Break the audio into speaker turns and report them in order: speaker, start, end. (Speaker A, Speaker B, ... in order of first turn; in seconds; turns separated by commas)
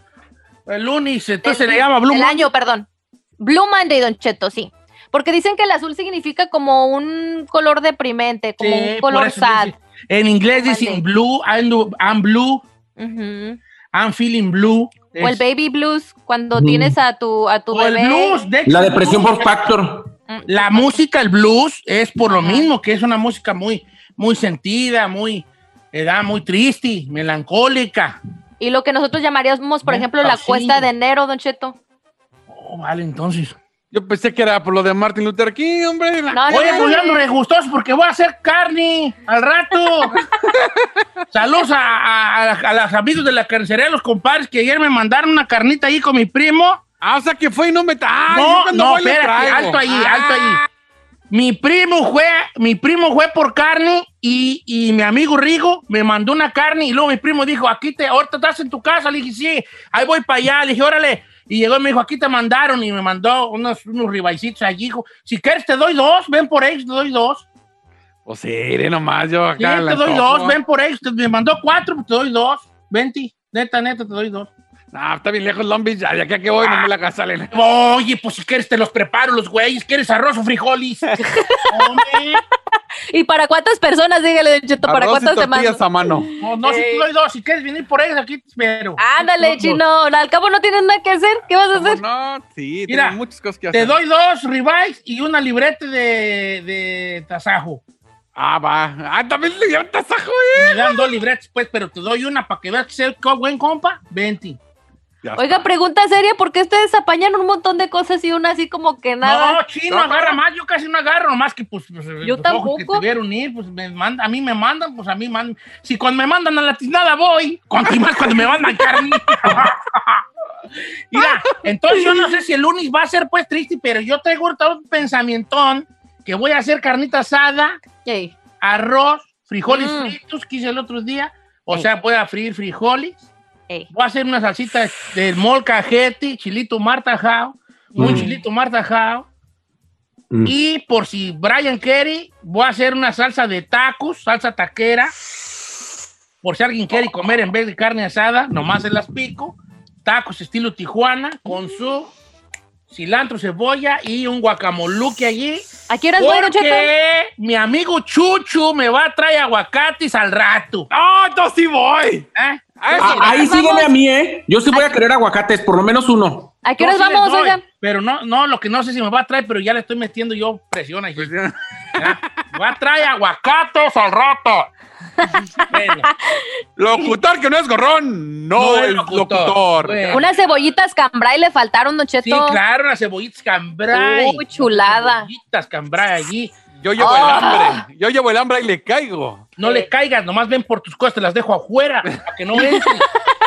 Speaker A: 0.7-2.5, Speaker B: 1.4-2.9, Speaker B: 3.4-9.7, Speaker A: 8.6-12.6, Speaker B: 10.6-11.0, Speaker B: 13.0-13.6, Speaker A: 13.9-15.4, Speaker B: 15.2-18.5, Speaker C: 16.5-17.0, Speaker A: 17.7-19.8, Speaker C: 18.6-20.1, Speaker B: 20.3-21.0, Speaker A: 20.5-28.2, Speaker B: 22.3-22.7, Speaker B: 28.6-31.8, Speaker A: 29.8-30.9, Speaker A: 32.5-33.6, Speaker D: 33.9-37.0, Speaker B: 36.3-37.2, Speaker A: 36.5-40.1, Speaker A: 41.3-46.8, Speaker D: 47.0-50.6, Speaker A: 48.3-50.6, Speaker A: 51.3-67.5, Speaker D: 68.3-70.6, Speaker A: 69.6-74.5, Speaker D: 74.9-77.5, Speaker A: 76.6-76.9, Speaker A: 77.5-81.0, Speaker B: 81.2-82.4, Speaker A: 81.7-82.4, Speaker B: 83.1-87.0, Speaker D: 84.9-86.3, Speaker A: 86.4-89.8, Speaker B: 89.0-92.0, Speaker D: 91.7-94.0, Speaker A: 92.9-93.2, Speaker A: 93.7-97.8, Speaker D: 98.4-101.1, Speaker A: 100.5-104.6, Speaker D: 105.2-105.7, Speaker B: 105.4-109.6, Speaker A: 109.2-120.2, Speaker D: 109.9-110.3, Speaker B: 112.2-113.1, Speaker A: 121.1-127.8, Speaker B: 128.1-128.3, Speaker A: 128.6-133.3, Speaker A: 133.9-139.3, Speaker C: 138.0-138.3, Speaker A: 140.4-145.1, Speaker A: 146.4-152.1, Speaker A: 152.9-160.9, Speaker B: 155.9-156.9, Speaker D: 160.9-162.3, Speaker A: 162.3-163.4, Speaker D: 162.8-163.2, Speaker C: 163.0-166.5, Speaker B: 163.1-163.9, Speaker B: 164.7-165.0, Speaker B: 166.6-167.6, Speaker A: 166.8-171.3, Speaker D: 171.2-172.2, Speaker A: 172.0-174.7, Speaker A: 175.7-176.1, Speaker B: 176.0-176.5, Speaker D: 176.8-180.2, Speaker A: 178.6-180.3, Speaker B: 180.1-182.6, Speaker A: 182.2-187.4, Speaker B: 183.9-185.3, Speaker D: 186.8-189.6, Speaker B: 187.0-187.8, Speaker A: 189.6-193.1, Speaker B: 192.6-192.9